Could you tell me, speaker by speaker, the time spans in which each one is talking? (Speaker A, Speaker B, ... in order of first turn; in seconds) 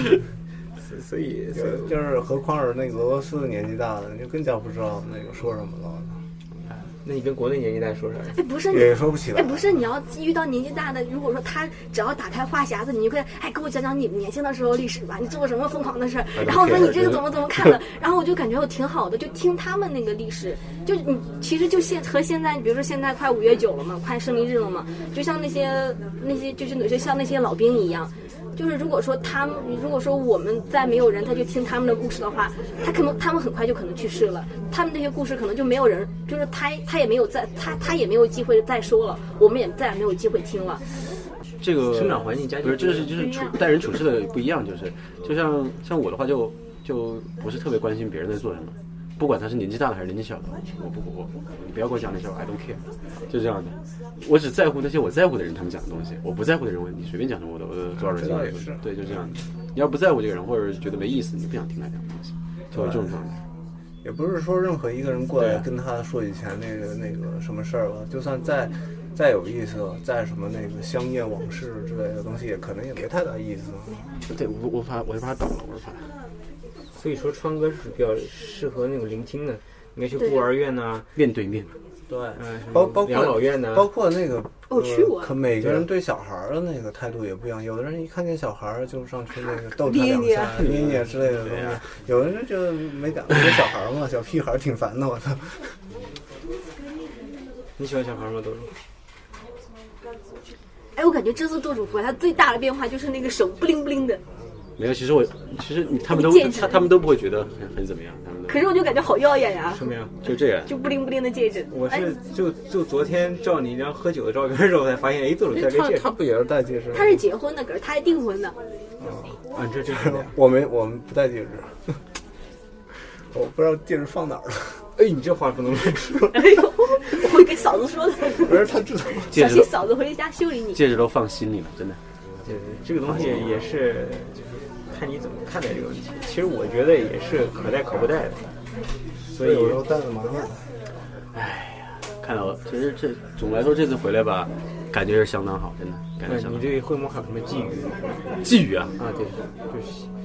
Speaker A: 0.8-2.0, 7.0-8.4, 41.8-43.1, 76.9-81.1, 82.3-83.9, 85.6-85.9, 97.8-98.7, 109.7-110.1, 111.7-116.1, 119.5-120.3, 125.0-126.4, 132.4-138.4, 139.3-139.8, 146.2-148.0, 149.0-150.1
Speaker B: 1.5-6.1, 8.7-9.7, 58.0-59.4, 62.7-63.2, 64.0-74.0, 82.1-95.7, 115.6-117.2, 119.9-121.9, 123.3-124.8, 128.4-129.3, 139.3-140.6
Speaker C: 8.3-40.8, 43.0-43.6, 80.2-80.5, 84.7-85.3, 89.5-90.7, 101.0-104.2, 106.1-106.8, 108.5-109.9, 110.6-112.1, 116.9-118.5, 126.3-130.8
Speaker D: 16.4-17.8, 41.6-63.4, 65.3-65.7, 74.3-76.1, 81.1-81.7, 83.0-83.4, 90.6-91.8, 104.8-108.7, 110.2-110.7, 129.3-129.8, 130.7-132.0, 133.1-133.5, 141.3-146.7, 148.4-148.9